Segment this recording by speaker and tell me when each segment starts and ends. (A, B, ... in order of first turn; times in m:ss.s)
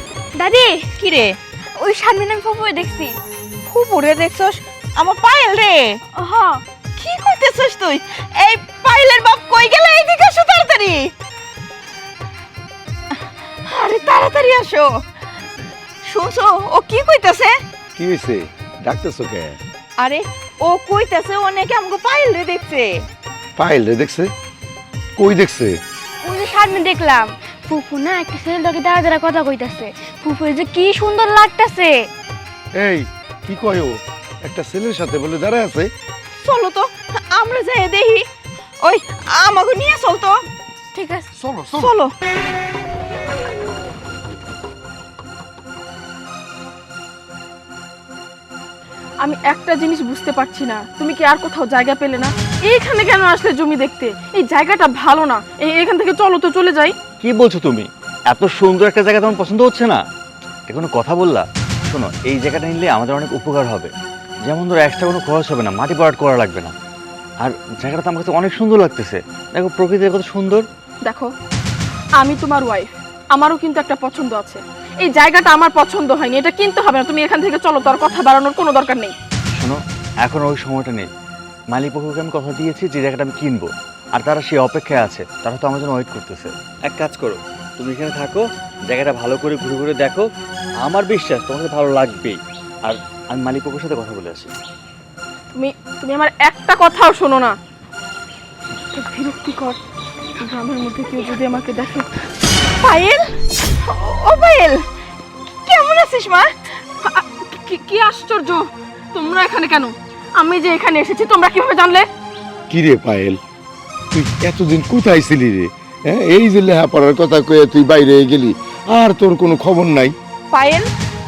0:00.4-0:00.8 A
0:01.0-0:01.3 B
0:01.8-0:03.1 A
0:03.7-0:05.8 B
0:06.1-0:06.6 C
0:07.0-0:11.0 B
0:13.6-0:14.9 B
0:16.0-0:17.5 B
0:18.0-0:19.6 D
0:20.0-0:22.9 B
0:23.6-0:24.3 D
0:25.2-0:25.8 D
0:26.2-0:32.1 A
0:32.8-0:35.9 D
0:36.4-0:38.2 B
0:38.8-0:40.3 B
0:40.9-0:41.2 A
0:41.4-0:41.9 D
0:41.7-0:42.1 B
0:49.2-0:57.0 C
0:57.2-1:00.0 E
1:00.7-1:03.9 E
1:04.4-1:06.7 E
1:07.4-1:10.6 E
1:11.0-1:11.3 C
1:12.2-1:19.2 C
1:19.5-1:21.1 E
1:21.7-1:30.2 E
1:30.8-1:34.5 E
1:35.5-1:37.6 C
1:38.9-1:39.8 C
1:40.4-1:42.1 C
1:42.8-1:43.3 B
1:43.8-1:44.8 B
1:45.6-1:46.5 B
1:47.0-1:52.1 C
1:52.7-1:53.4 D
1:54.1-2:00.1 D
2:00.5-2:00.9 B